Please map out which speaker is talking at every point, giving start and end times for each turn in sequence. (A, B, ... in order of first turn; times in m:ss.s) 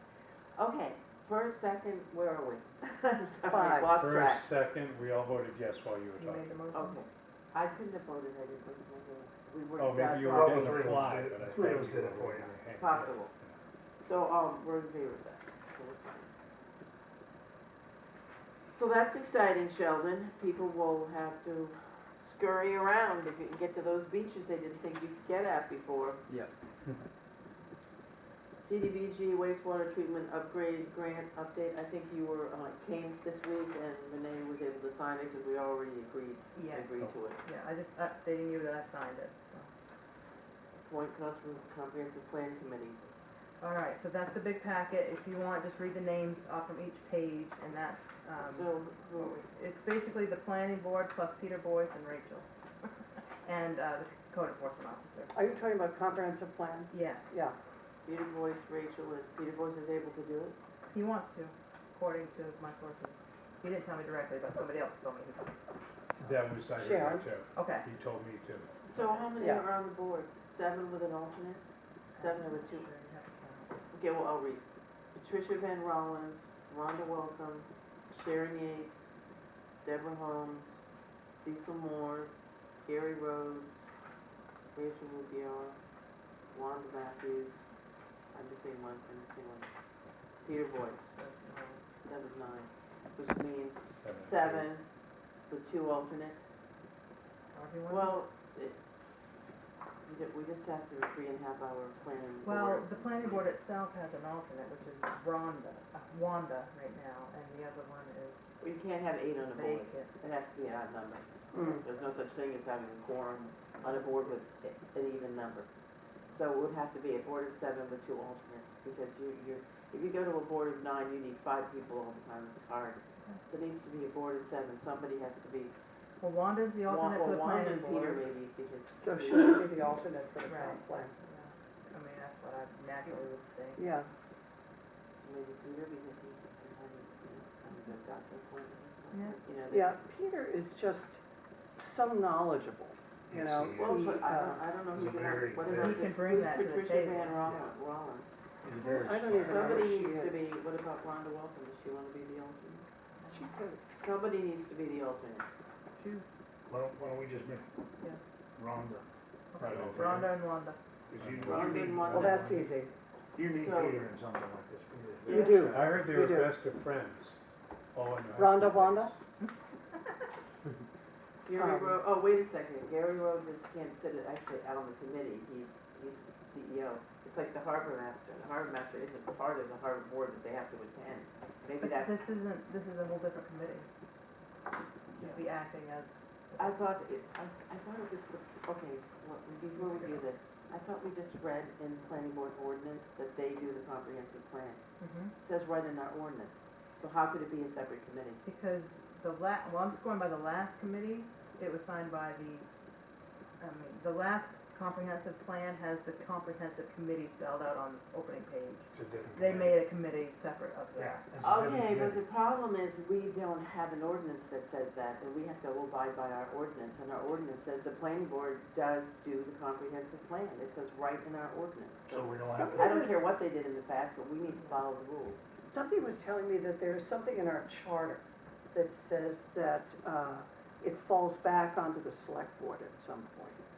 0:00.6-0:04.5 A
0:03.5-0:03.9 B
0:03.9-0:06.5 C
0:06.2-0:07.0 D
0:06.7-0:10.8 A
0:09.8-0:13.5 C
0:10.2-0:12.6 E
0:12.8-0:13.3 A
0:14.0-0:16.3 A
0:18.7-0:26.2 A
0:28.6-0:37.4 A
0:36.5-0:39.7 D
0:40.8-0:43.0 A
0:43.6-0:52.4 D
0:48.4-0:49.4 A
0:53.4-0:55.4 D
0:55.3-0:57.6 B
0:56.9-0:57.4 D
0:58.0-1:00.6 A
1:00.9-1:05.7 D
1:06.2-1:07.2 B
1:06.2-1:08.7 C
1:07.5-1:07.9 D
1:08.8-1:09.3 D
1:08.9-1:11.6 A
1:09.4-1:09.6 B
1:12.1-1:13.7 D
1:12.2-1:12.8 A
1:13.9-1:14.6 A
1:15.1-1:19.0 A
1:19.8-1:20.8 A
1:21.3-1:22.3 A
1:22.8-1:23.8 A
1:24.7-1:25.8 A
1:26.5-1:27.5 A
1:28.3-1:29.7 A
1:30.4-1:31.2 A
1:31.1-1:31.8 D
1:32.0-1:34.8 A
1:34.0-1:34.7 C
1:35.5-1:36.4 A
1:37.5-1:38.2 D
1:37.9-1:38.8 A
1:40.0-1:43.5 A
1:42.4-1:48.4 D
1:48.6-1:55.7 A
1:49.5-1:50.1 D
1:51.5-1:51.8 B
1:56.3-2:05.7 A
2:06.2-2:08.2 D
2:06.9-2:09.7 A
2:09.0-2:11.1 B
2:10.4-2:13.9 D
2:13.8-2:14.1 B
2:15.2-2:20.0 A
2:19.1-2:19.4 D
2:19.7-2:21.2 B
2:21.8-2:24.6 B
2:23.3-2:24.0 E
2:23.7-2:28.3 A
2:24.9-2:26.1 E
2:25.7-2:27.4 D
2:28.6-2:29.9 E
2:28.7-2:30.5 B
2:29.2-2:32.8 A
2:33.2-2:33.6 D
2:33.3-2:33.8 B
2:34.0-2:35.4 A
2:36.0-2:36.2 D
2:36.7-2:37.7 E
2:38.6-2:40.4 E
2:39.5-2:40.8 D
2:39.6-2:40.3 C
2:41.1-2:46.3 E
2:41.2-2:41.9 C
2:41.4-2:42.5 A
2:42.0-2:42.9 B
2:43.5-2:44.1 A
2:45.2-2:45.7 A
2:45.3-2:46.5 B
2:45.6-2:47.4 C
2:47.9-2:49.2 C
2:48.3-2:49.1 B
2:51.4-3:02.2 A
2:51.6-2:52.0 B
3:01.8-3:03.9 D
3:05.2-3:06.8 D
3:06.6-3:14.8 A
3:09.8-3:10.2 D
3:15.0-3:15.3 D
3:15.4-3:18.4 A
3:18.4-3:22.7 D
3:23.6-3:31.3 D
3:28.9-3:29.8 E
3:31.0-3:31.8 E
3:31.3-3:32.2 C
3:31.4-3:45.4 A
3:42.1-3:42.9 E
3:42.4-3:43.3 B
3:44.5-3:44.8 D
3:45.7-3:48.2 B
3:48.7-3:53.6 B